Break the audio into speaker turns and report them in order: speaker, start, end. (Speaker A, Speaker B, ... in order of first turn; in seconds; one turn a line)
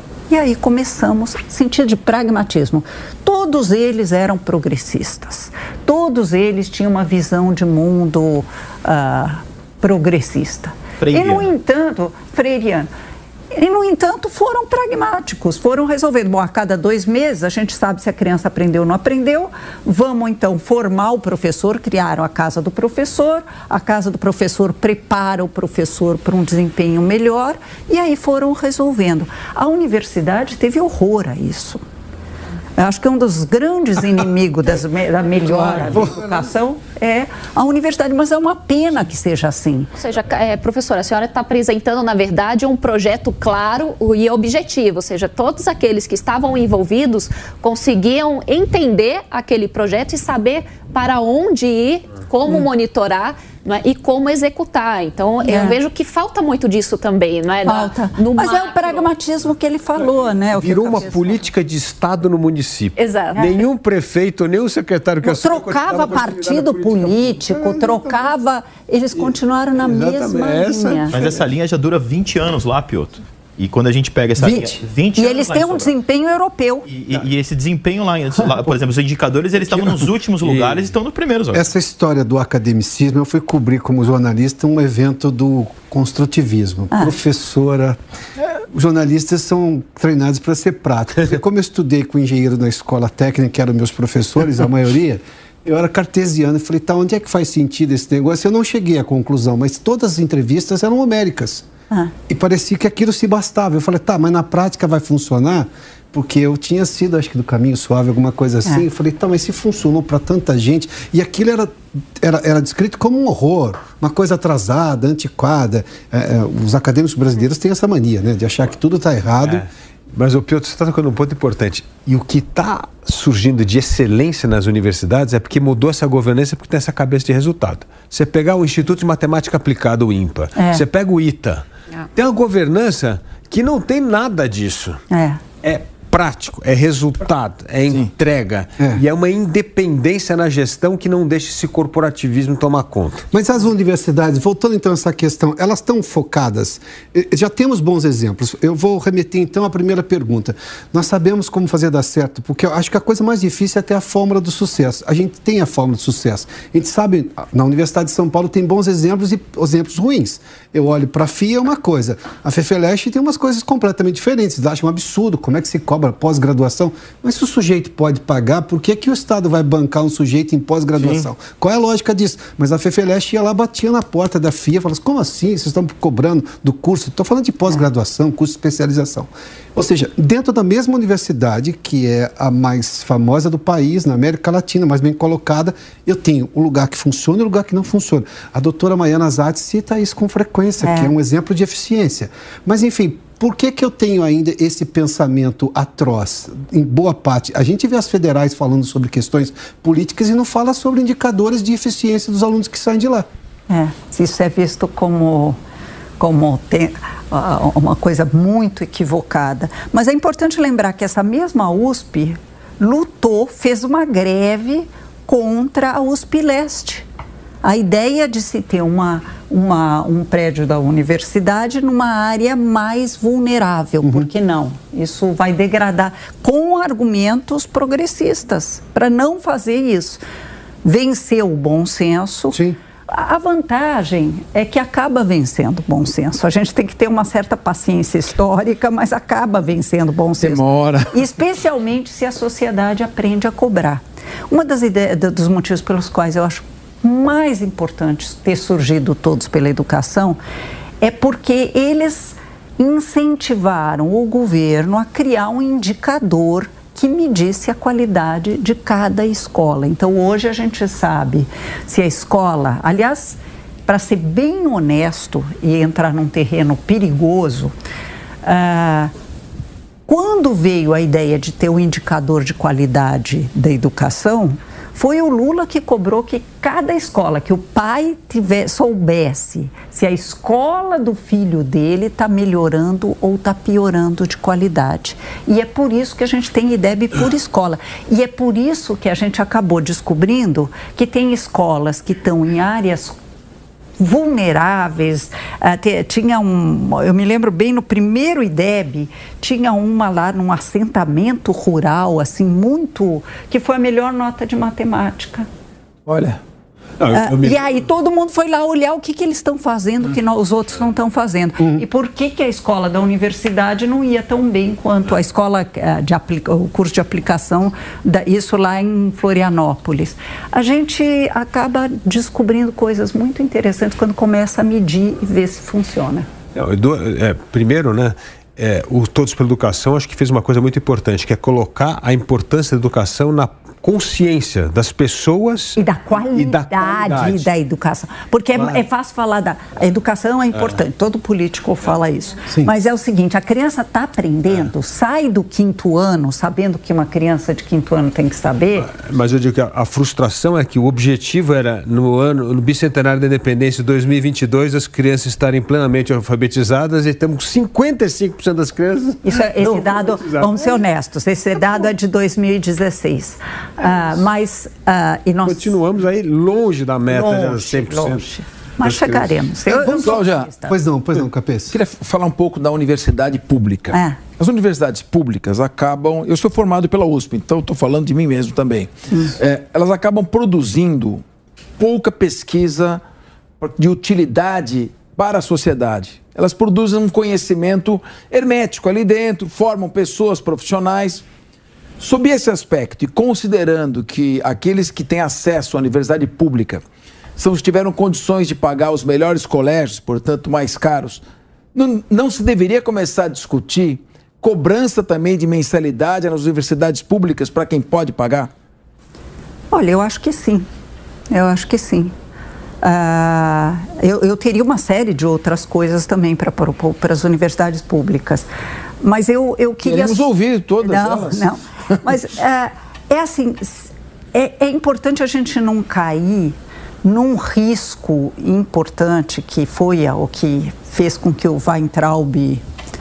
Speaker A: 0.3-12.9
Speaker B: 11.0-11.4
Speaker A: 13.5-31.8
Speaker A: 32.8-39.9
Speaker C: 35.5-36.1
Speaker D: 40.0-59.1
Speaker A: 55.4-55.8
Speaker A: 57.6-61.4
Speaker C: 60.5-68.1
Speaker D: 63.0-63.5
Speaker A: 65.2-71.2
Speaker C: 69.8-71.4
Speaker B: 71.1-75.9
Speaker E: 74.4-74.7
Speaker A: 75.2-76.9
Speaker B: 76.9-81.6
Speaker C: 80.4-80.8
Speaker E: 81.5-88.0
Speaker E: 88.7-101.7
Speaker E: 102.3-119.6
Speaker C: 119.4-135.0
Speaker A: 130.6-130.8
Speaker A: 135.1-135.4
Speaker C: 135.6-143.3
Speaker E: 143.3-203.2
Speaker A: 190.8-191.1
Speaker A: 203.7-205.6
Speaker A: 206.2-217.0
Speaker A: 217.6-230.2
Speaker E: 224.0-224.3
Speaker A: 230.8-250.4
Speaker E: 232.5-232.8
Speaker F: 240.4-241.2
Speaker A: 251.0-267.7
Speaker A: 268.4-269.1
Speaker A: 270.1-293.1
Speaker A: 294.0-305.5
Speaker F: 306.1-306.4
Speaker C: 307.0-307.6
Speaker A: 307.1-326.3
Speaker C: 326.5-337.5
Speaker A: 335.8-348.9
Speaker C: 338.5-338.8
Speaker C: 348.8-360.8
Speaker A: 359.2-365.8
Speaker C: 365.4-368.3
Speaker A: 367.1-370.7
Speaker C: 368.8-369.4
Speaker F: 369.7-370.5
Speaker E: 370.7-371.7
Speaker F: 371.7-381.2
Speaker A: 373.9-374.2
Speaker F: 381.8-383.0
Speaker F: 383.6-391.2
Speaker F: 392.0-396.8
Speaker F: 397.4-401.2
Speaker F: 401.7-408.5
Speaker A: 409.7-410.6
Speaker A: 411.3-412.1
Speaker A: 412.8-418.5
Speaker A: 419.0-420.3
Speaker F: 419.8-421.5
Speaker A: 420.8-432.6